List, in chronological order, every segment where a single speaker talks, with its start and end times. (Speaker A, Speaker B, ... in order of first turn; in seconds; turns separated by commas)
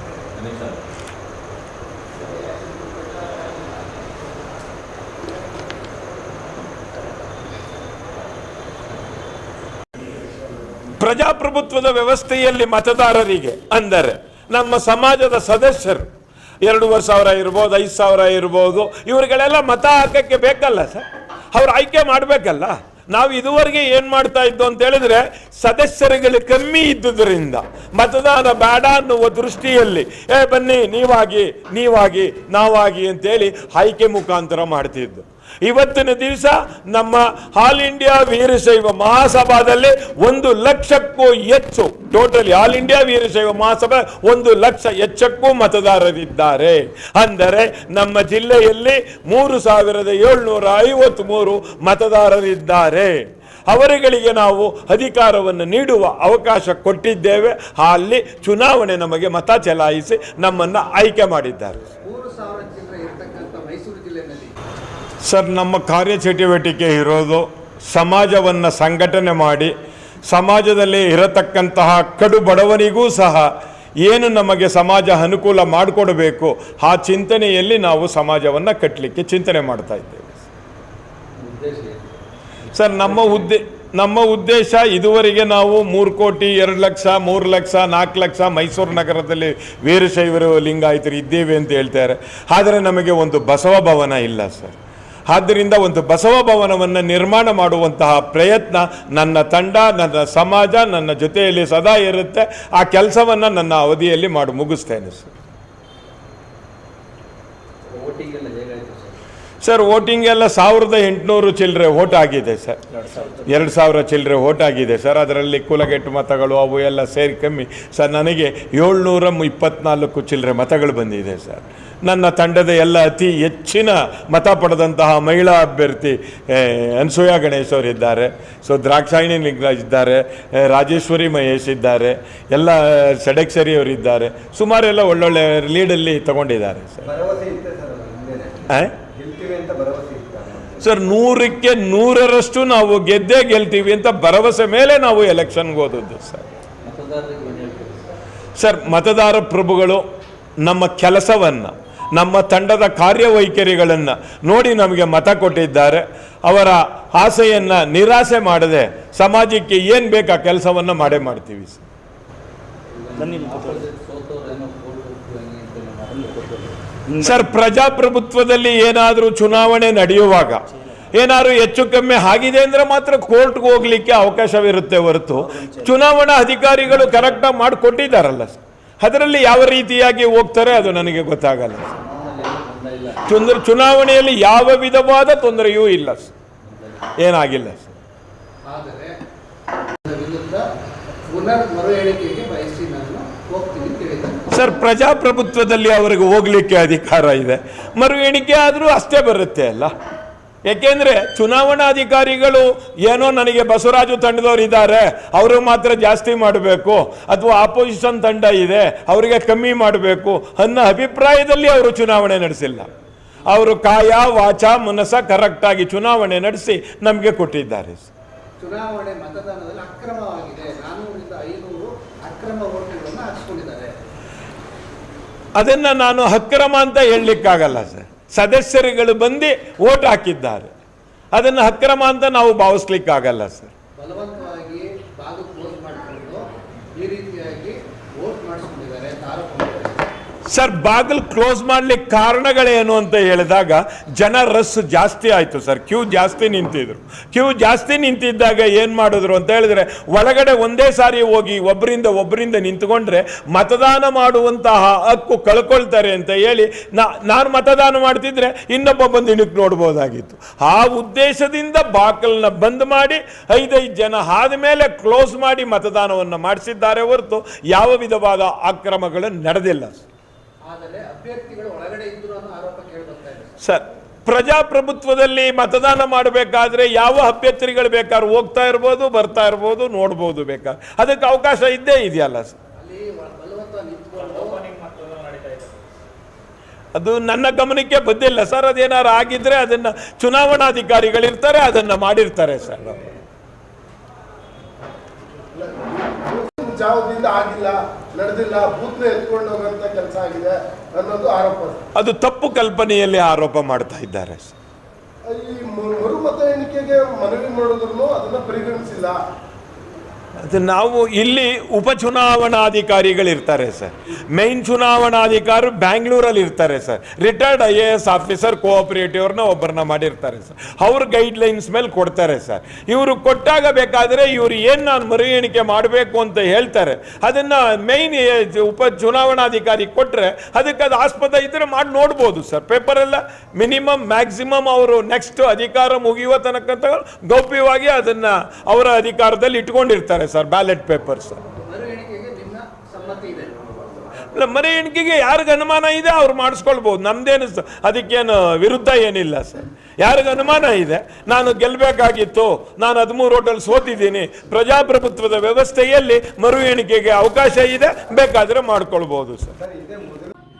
Speaker A: 0.3-0.8, Speaker B: 11.0-16.1, Speaker B: 16.6-61.9, Speaker C: 62.0-64.5, Speaker B: 65.2-69.7, Speaker B: 70.2-73.5, Speaker B: 74.0-80.4, Speaker A: 81.3-83.5, Speaker B: 82.7-94.8, Speaker B: 95.3-105.3, Speaker A: 107.9-109.2, Speaker B: 109.6-137.0, Speaker A: 113.1-113.6, Speaker D: 137.0-140.8, Speaker B: 140.8-146.4, Speaker A: 146.8-148.0, Speaker B: 148.6-150.0, Speaker B: 150.6-161.8, Speaker A: 162.9-167.4, Speaker B: 167.2-181.9, Speaker A: 175.6-175.9, Speaker A: 181.9-183.2, Speaker B: 183.3-186.3, Speaker A: 186.6-187.1, Speaker B: 187.2-188.0, Speaker C: 188.7-189.1, Speaker C: 190.0-190.6, Speaker C: 191.3-194.7, Speaker B: 194.5-199.9, Speaker B: 200.7-212.9, Speaker B: 213.5-218.1, Speaker C: 218.6-223.9, Speaker B: 225.6-230.7, Speaker B: 231.3-233.7, Speaker C: 234.0-236.4, Speaker C: 236.9-240.1, Speaker B: 240.5-270.1, Speaker C: 270.7-273.5, Speaker B: 273.6-282.6, Speaker C: 282.8-284.6, Speaker A: 284.4-285.7, Speaker B: 286.9-293.0, Speaker E: 295.5-301.8, Speaker B: 301.9-304.5, Speaker E: 305.2-309.1, Speaker B: 310.4-341.4, Speaker C: 341.5-343.7, Speaker B: 344.3-359.6, Speaker D: 359.6-360.3